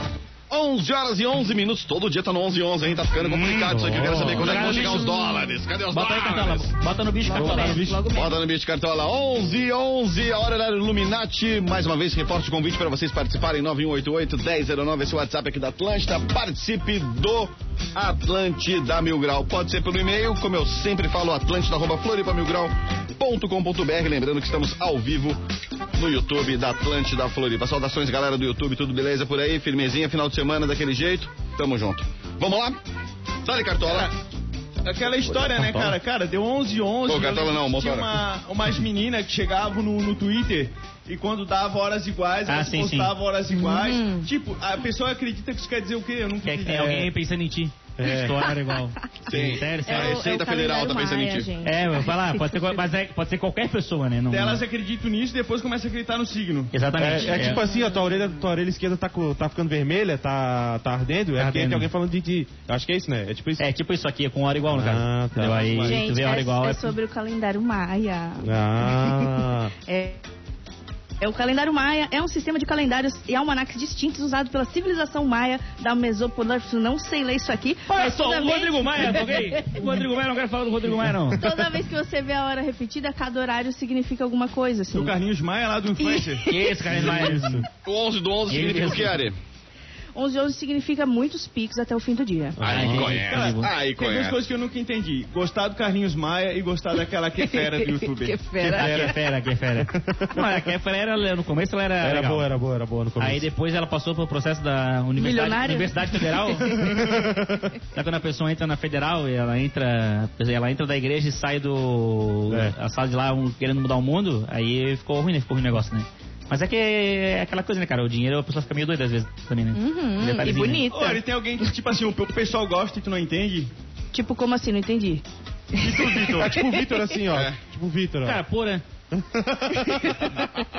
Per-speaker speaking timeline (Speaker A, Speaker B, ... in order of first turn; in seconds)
Speaker A: 0.5-6.7, 8.1-25.4, 25.9-32.8, 33.4-34.1, 37.0-38.2, 49.3-51.5, 87.8-89.4, 92.6-94.4, 127.3-127.6
Speaker B: 3.2-5.1, 5.9-7.9, 42.5-43.1, 46.4-50.2, 51.6-54.6, 56.7-57.6, 61.4-61.9, 63.6-66.9, 77.9-81.5, 86.5-87.7, 88.5-89.2, 92.6-93.7, 98.6-102.5, 103.2-107.1, 107.9-120.9, 128.2-128.8
Speaker C: 3.5-4.5, 7.3-8.1, 35.4-36.0, 48.0-48.4, 57.0-63.6, 64.7-65.7, 68.4-69.7, 81.0-81.6, 86.9-87.7, 92.6-93.0, 98.8-99.2, 99.7-100.7, 102.0-103.5, 106.8-107.7, 112.5-112.7, 126.4-128.4, 129.1-130.4
Speaker D: 4.5-5.5, 7.3-8.4, 43.5-44.3, 49.8-52.7, 57.4-57.9, 65.8-70.2, 71.2-80.0, 81.4-85.2, 86.0-86.7, 90.1-92.7, 97.4-99.2, 105.2-107.1, 119.7-121.2, 124.1-126.8, 129.8-130.2
Speaker E: 33.8-34.1, 34.8-47.1, 54.3-56.7, 65.5-66.0, 84.9-86.5, 93.0-98.4, 120.9-123.7, 125.8-126.5